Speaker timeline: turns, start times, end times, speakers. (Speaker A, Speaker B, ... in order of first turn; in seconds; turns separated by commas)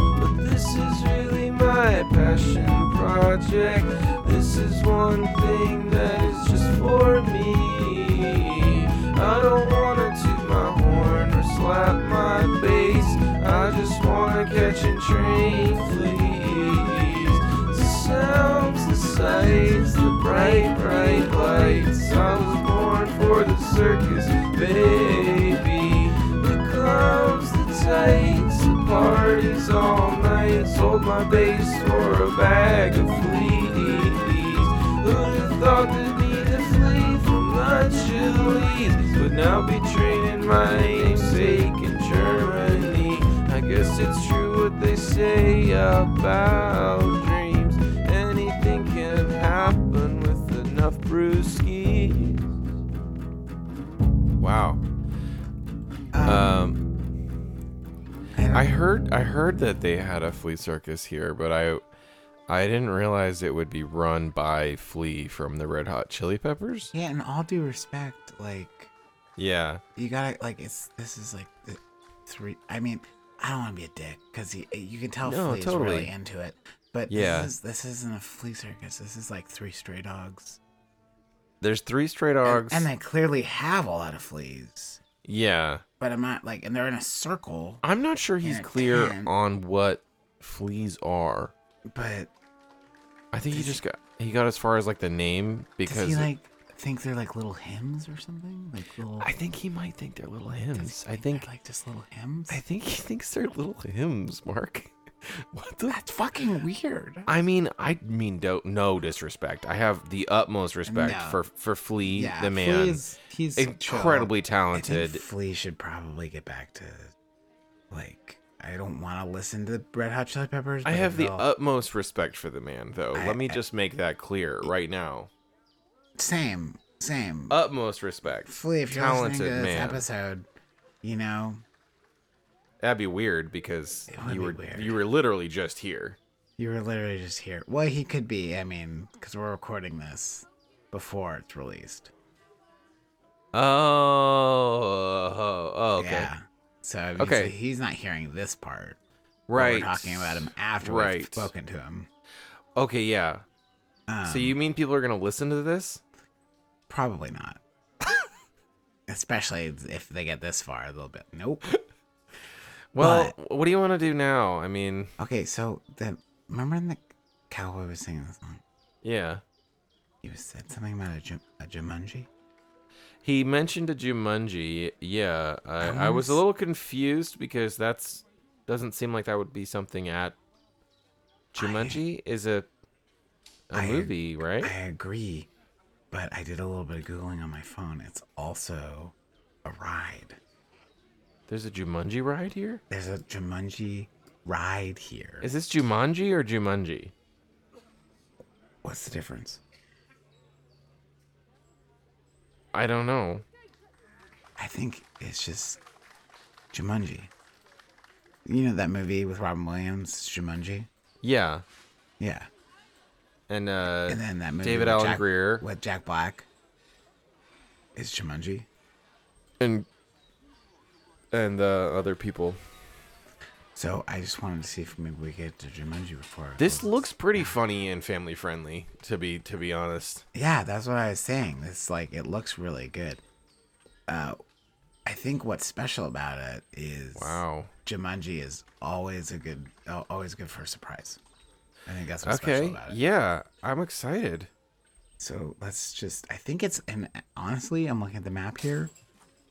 Speaker A: 0.1-52.5, Speaker A: 54.4-54.8, Speaker B: 56.1-56.5, Speaker A: 56.2-56.8, Speaker B: 58.4-58.7, Speaker A: 58.5-61.8, Speaker A: 62.5-66.9, Speaker B: 66.9-68.9, Speaker A: 69.4-69.8, Speaker B: 70.0-80.6, Speaker A: 75.2-76.1, Speaker A: 77.1-77.5, Speaker A: 81.6-82.9, Speaker B: 82.4-85.0, Speaker A: 85.2-85.8, Speaker B: 86.0-87.8, Speaker A: 87.8-91.5, Speaker B: 88.4-89.3, Speaker B: 91.9-92.3, Speaker A: 93.3-96.3, Speaker B: 93.5-93.8, Speaker B: 95.9-99.3, Speaker A: 99.2-101.5, Speaker B: 100.7-102.6, Speaker A: 102.5-106.0, Speaker B: 105.9-107.3, Speaker A: 107.3-113.0, Speaker B: 110.9-111.4, Speaker B: 112.1-117.1, Speaker A: 113.6-115.2, Speaker B: 117.9-121.5, Speaker A: 120.8-125.3, Speaker B: 123.2-123.6, Speaker B: 126.2-127.6, Speaker A: 127.5-130.0, Speaker B: 128.5-130.5, Speaker B: 131.0-131.6, Speaker A: 132.8-136.2, Speaker B: 134.1-135.0, Speaker B: 136.6-142.1, Speaker A: 143.5-146.3, Speaker B: 146.0-149.0, Speaker A: 147.2-147.5, Speaker A: 149.5-151.5, Speaker B: 149.5-152.1, Speaker A: 152.8-153.4, Speaker B: 154.1-154.6, Speaker A: 154.2-156.0, Speaker B: 156.9-157.6, Speaker B: 159.1-161.7, Speaker A: 162.9-165.1, Speaker B: 163.0-163.3, Speaker B: 165.2-168.6, Speaker A: 169.0-169.4, Speaker B: 170.2-172.3, Speaker A: 173.2-180.4, Speaker B: 175.8-176.4, Speaker A: 181.5-182.7, Speaker B: 181.6-182.0, Speaker A: 183.7-184.7, Speaker B: 183.7-185.5, Speaker B: 186.1-189.1, Speaker B: 189.7-190.4, Speaker A: 191.5-192.8, Speaker B: 192.9-195.5, Speaker A: 195.4-197.1, Speaker B: 198.8-199.6, Speaker A: 202.7-203.4, Speaker B: 204.6-205.8, Speaker B: 206.7-207.3, Speaker B: 208.5-210.9, Speaker A: 211.2-211.6, Speaker B: 212.2-212.5, Speaker A: 213.5-215.7, Speaker B: 214.1-216.5, Speaker B: 217.9-218.7, Speaker A: 219.6-219.9, Speaker A: 221.3-222.6, Speaker B: 223.8-227.6, Speaker A: 226.6-230.2, Speaker B: 230.3-233.2, Speaker B: 234.1-234.4, Speaker B: 235.1-241.2, Speaker A: 237.2-237.7, Speaker B: 241.9-243.0, Speaker A: 242.2-244.5, Speaker B: 245.2-248.9